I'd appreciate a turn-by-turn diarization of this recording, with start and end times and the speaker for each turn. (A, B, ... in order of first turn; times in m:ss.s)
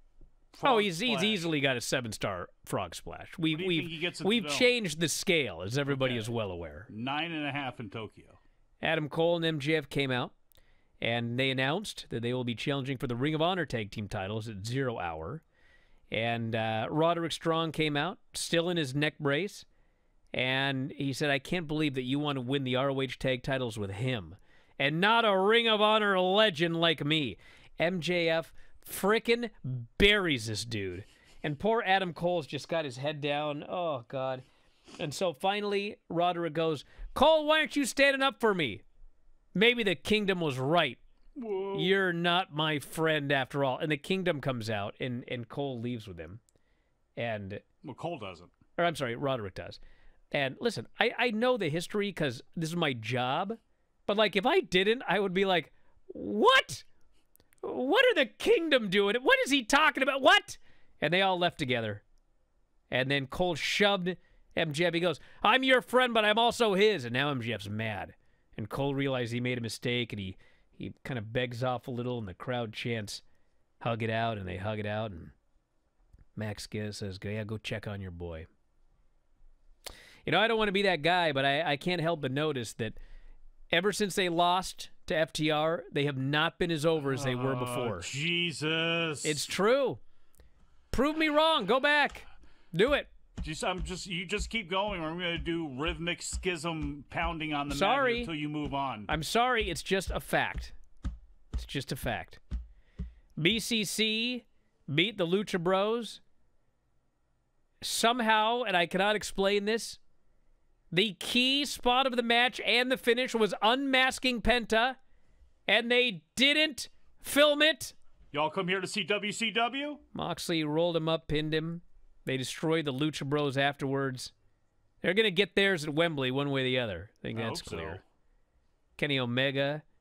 0:00.5-0:01.5 A
0:00.6-0:06.9 B
0:03.5-0:04.7 A
0:05.9-0:06.3 A
0:06.9-0:08.4 A
0:08.8-0:10.3 B
0:11.0-0:15.4 B
0:16.1-0:19.6 B
0:20.3-0:34.4 B
0:35.0-0:38.8 B
0:39.6-0:41.0 B
0:41.4-0:42.0 A
0:41.8-0:46.4 B
0:47.2-0:47.6 B
0:47.8-0:48.5 A
0:48.8-0:49.8 B
0:50.3-0:56.8 B
0:57.6-1:02.0 B
1:02.9-1:13.2 B
1:13.8-1:15.3 B
1:16.4-1:18.5 B
1:20.3-1:23.0 B
1:23.7-1:28.1 B
1:27.0-1:29.4 A
1:29.2-1:30.0 B
1:30.9-1:33.1 B
1:33.4-1:39.1 A
1:37.7-1:38.3 B
1:39.1-1:40.8 B
1:41.5-1:42.4 B
1:43.4-1:46.2 B
1:47.8-1:50.0 B
1:50.9-1:55.0 B
1:55.7-1:57.9 B
1:58.3-2:00.0 A
2:00.1-2:04.3 B
2:05.0-2:08.0 B
2:07.3-2:08.0 A
2:09.0-2:09.8 B